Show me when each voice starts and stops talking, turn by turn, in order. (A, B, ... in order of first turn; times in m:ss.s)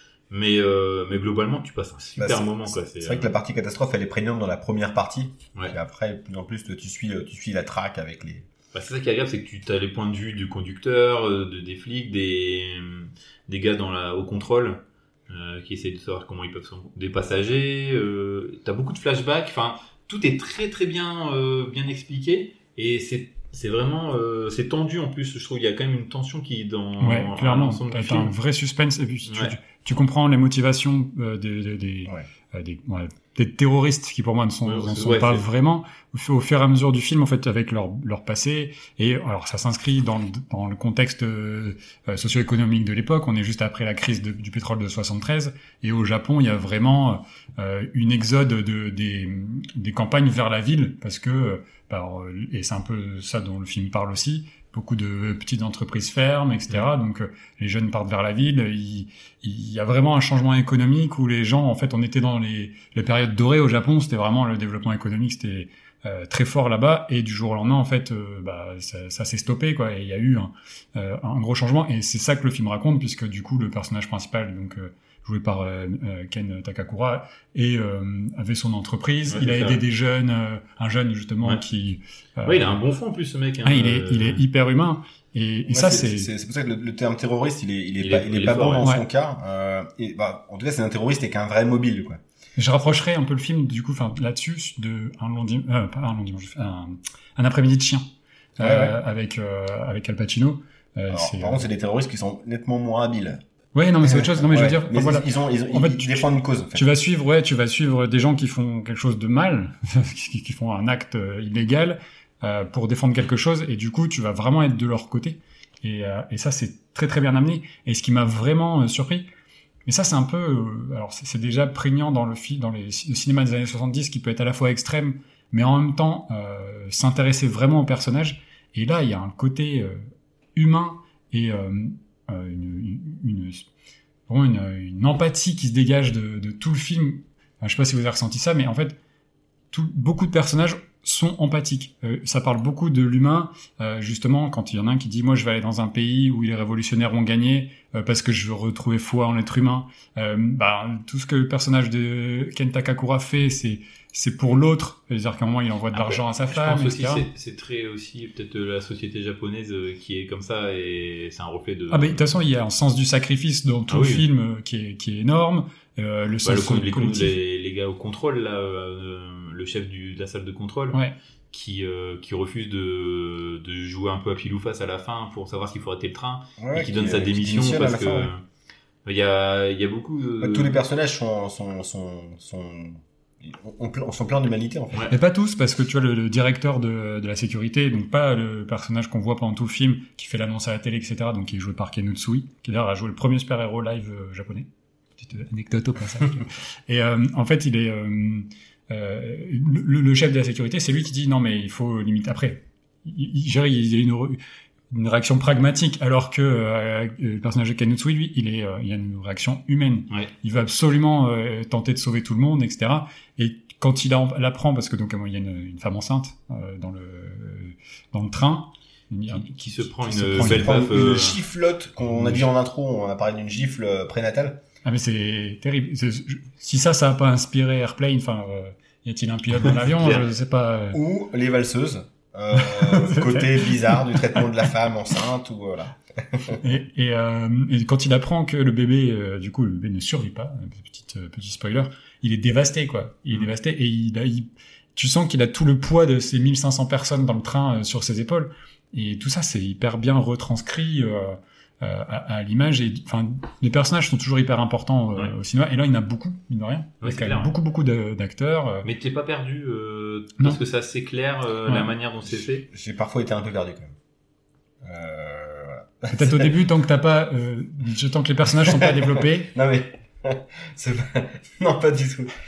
0:00.3-0:03.3 A
0:02.2-0:08.4 B
0:08.7-0:28.3 A
0:27.0-1:22.8 C
0:29.2-0:29.5 A
0:34.6-0:35.5 A
1:19.3-1:19.8 A
1:22.4-1:24.4 A
1:23.6-1:26.3 C
1:25.7-1:32.2 B
1:28.0-1:28.9 A
1:32.6-1:41.6 C
1:38.6-1:39.0 B
1:41.1-1:43.4 B
1:43.7-1:59.3 C
1:44.0-1:46.9 B
1:59.8-2:10.0 C
2:10.6-2:13.6 C
2:14.3-2:19.0 C
2:19.7-2:37.3 C
2:35.9-2:42.5 A
2:41.9-2:47.4 C
2:43.9-2:44.2 A
2:46.4-2:58.4 A
2:56.6-2:58.3 B
2:59.0-3:00.8 A
3:00.4-3:05.1 B
3:05.1-3:24.4 C
3:24.9-3:41.1 C
3:39.3-3:41.4 A
3:40.4-3:44.6 B
3:42.1-3:42.5 C
3:44.8-3:51.0 C
3:49.8-3:50.2 A
3:50.9-3:56.6 B
3:52.5-3:54.4 C
3:56.6-4:18.9 C
4:17.0-4:17.5 A
4:18.8-4:22.6 A
4:22.3-4:23.9 B
4:24.8-4:26.5 B
4:26.1-4:29.5 C
4:28.7-4:32.3 B